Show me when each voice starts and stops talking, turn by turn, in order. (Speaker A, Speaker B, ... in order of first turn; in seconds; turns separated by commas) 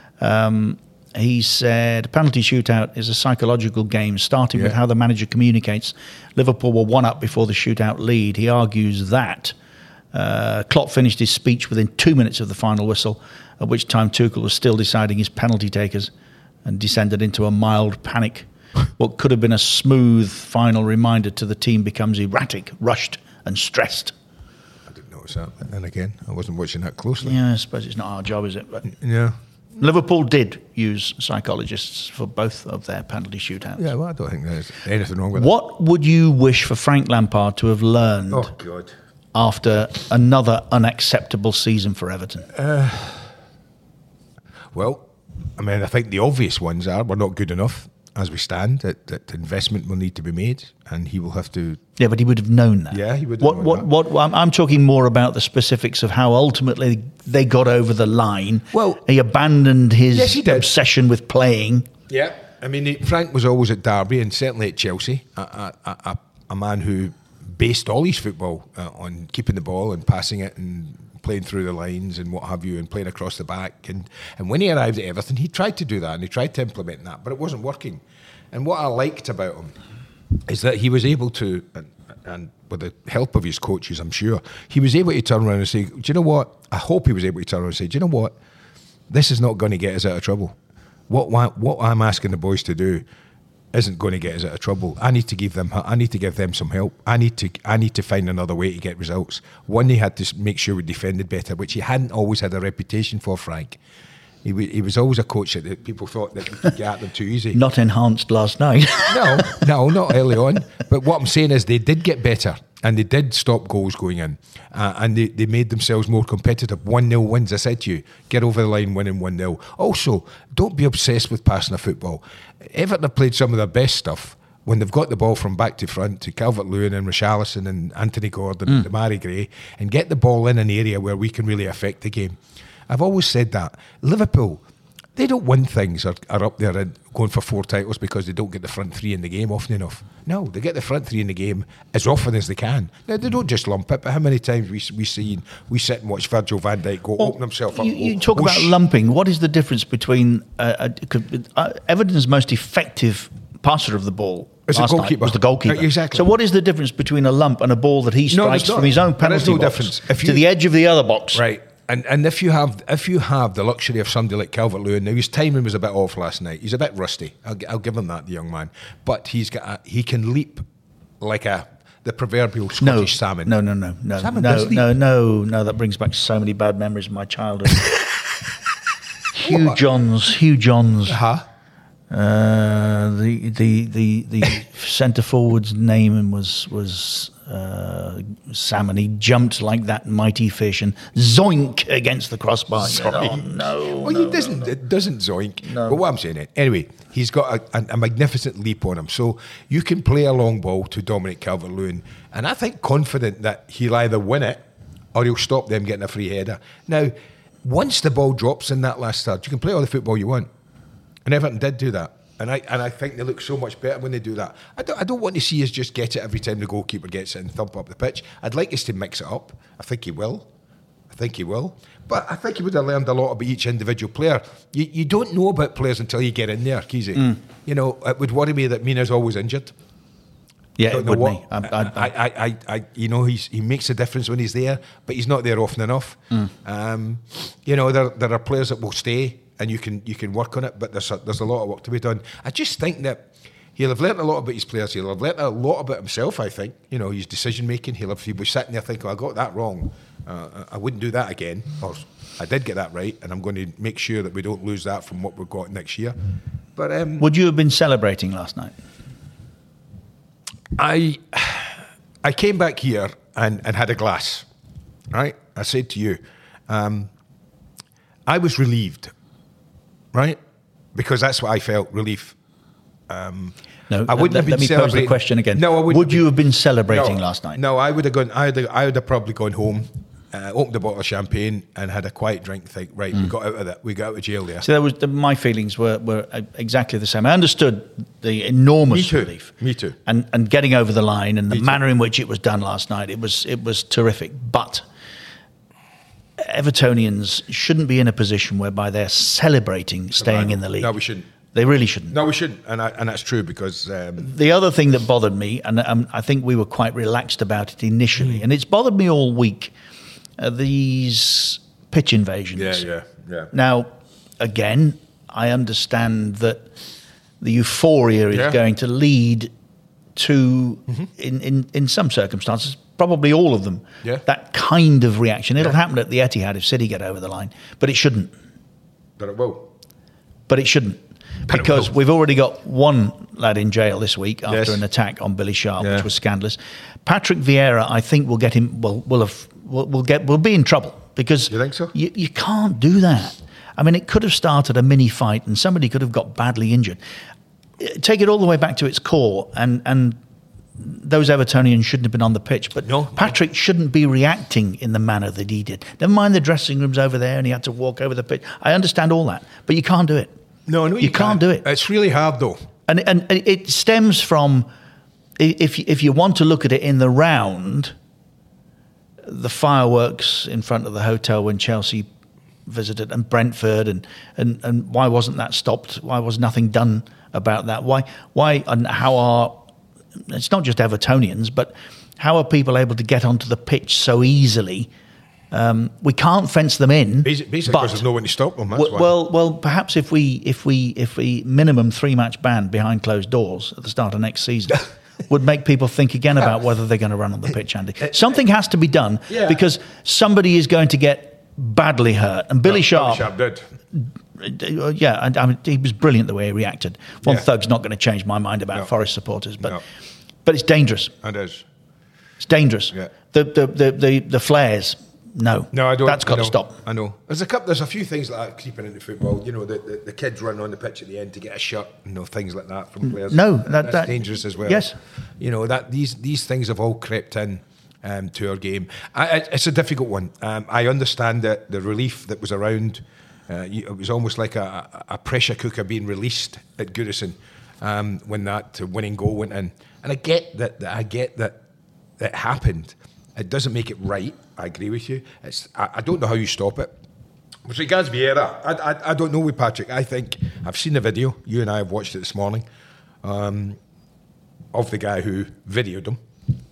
Speaker A: 0.2-9.5, Speaker A: 10.1-16.1, Speaker A: 16.6-24.1, Speaker B: 24.9-27.4, Speaker A: 27.2-28.9, Speaker B: 28.9-29.4, Speaker A: 29.8-33.9, Speaker B: 33.8-35.5, Speaker A: 35.3-38.5, Speaker B: 38.3-38.9, Speaker A: 39.3-42.5, Speaker B: 42.5-43.3, Speaker B: 44.7-51.8, Speaker A: 52.0-61.9, Speaker B: 52.9-53.9, Speaker B: 58.7-59.0, Speaker B: 60.1-60.7, Speaker B: 62.1-79.8, Speaker B: 80.5-88.3, Speaker B: 89.1-90.5, Speaker B: 91.1-93.0, Speaker B: 93.7-103.8, Speaker B: 104.4-107.6, Speaker A: 107.5-109.7, Speaker B: 109.1-134.6, Speaker B: 135.2-148.8, Speaker A: 147.2-161.4, Speaker B: 154.7-156.3, Speaker B: 158.3-160.5, Speaker B: 161.3-170.7, Speaker B: 171.2-173.5, Speaker A: 172.8-177.9, Speaker B: 174.2-174.9, Speaker A: 179.3-181.2, Speaker B: 179.4-179.8, Speaker B: 181.1-181.4, Speaker A: 182.1-194.8, Speaker B: 192.8-210.5, Speaker A: 195.6-196.0, Speaker B: 211.2-220.5, Speaker B: 221.1-229.7, Speaker A: 230.8-232.1, Speaker B: 230.8-256.1, Speaker B: 256.8-257.3, Speaker A: 257.2-258.7, Speaker B: 260.8-264.5, Speaker B: 265.1-267.1, Speaker B: 268.2-269.1, Speaker B: 270.1-270.4, Speaker B: 270.9-272.4, Speaker B: 273.1-276.3, Speaker A: 273.9-277.6, Speaker B: 276.9-284.7, Speaker A: 284.6-289.5, Speaker B: 288.9-289.9, Speaker A: 290.1-294.8, Speaker B: 291.5-291.8, Speaker A: 296.4-300.9, Speaker B: 300.1-301.3, Speaker A: 301.5-302.2, Speaker B: 302.1-304.3, Speaker A: 304.2-309.7, Speaker A: 310.4-312.8, Speaker B: 312.6-313.5, Speaker A: 313.5-316.7, Speaker A: 317.4-319.5, Speaker B: 318.3-318.6, Speaker A: 320.1-328.3, Speaker B: 329.2-329.7, Speaker A: 330.5-347.0, Speaker B: 331.5-331.9, Speaker B: 334.5-334.8, Speaker B: 335.8-336.1, Speaker B: 341.5-341.9, Speaker A: 347.8-350.2, Speaker A: 350.8-360.3, Speaker B: 352.8-353.4, Speaker B: 360.7-362.6, Speaker A: 361.0-361.6, Speaker A: 362.9-364.7, Speaker A: 365.4-367.9, Speaker A: 369.2-372.1, Speaker A: 372.6-379.6, Speaker A: 380.3-384.9, Speaker A: 385.5-388.0, Speaker B: 387.2-389.1, Speaker A: 388.7-403.3, Speaker B: 399.3-399.6, Speaker B: 402.6-403.6, Speaker A: 403.9-409.8, Speaker A: 410.4-411.1, Speaker B: 411.2-411.6, Speaker A: 412.4-416.8, Speaker B: 415.7-441.6, Speaker A: 423.0-424.9, Speaker B: 442.2-446.9, Speaker B: 447.6-452.6, Speaker B: 453.2-453.8, Speaker B: 454.7-456.2